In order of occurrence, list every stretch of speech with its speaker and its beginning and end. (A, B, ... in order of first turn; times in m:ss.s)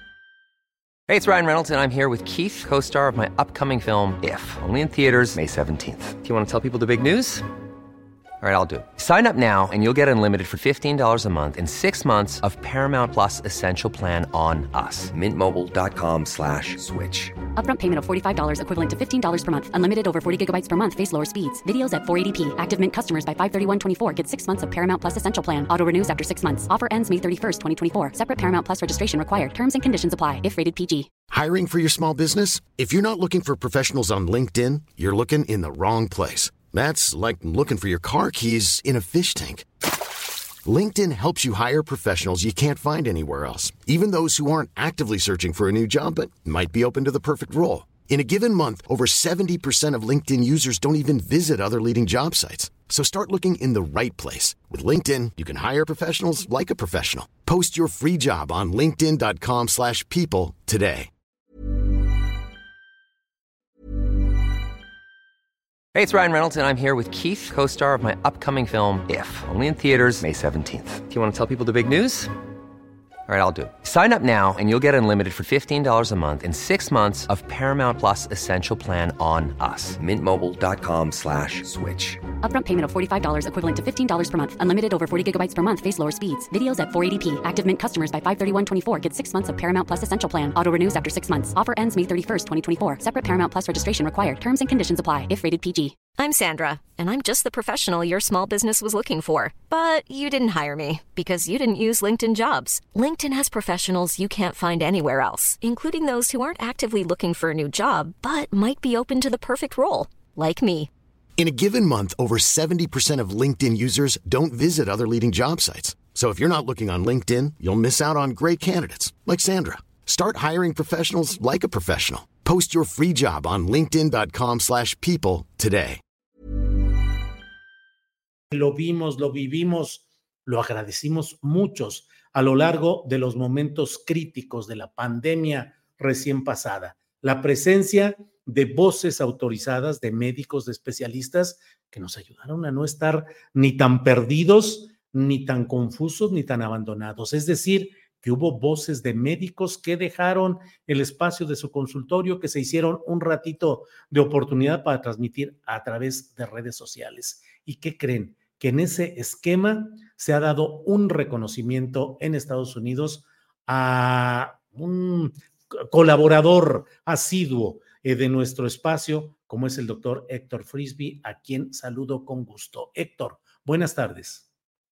0:01.1-0:07.4 A
0:08.4-0:17.3 A
0:17.6-0:31.1 B
0:31.3-0:39.7 C
0:40.6-1:01.1 C
1:05.9-1:12.3 A
1:13.3-1:22.2 A
1:22.4-1:36.1 B
1:36.1-1:50.9 D
1:51.4-2:06.0 C
2:08.5-2:54.4 E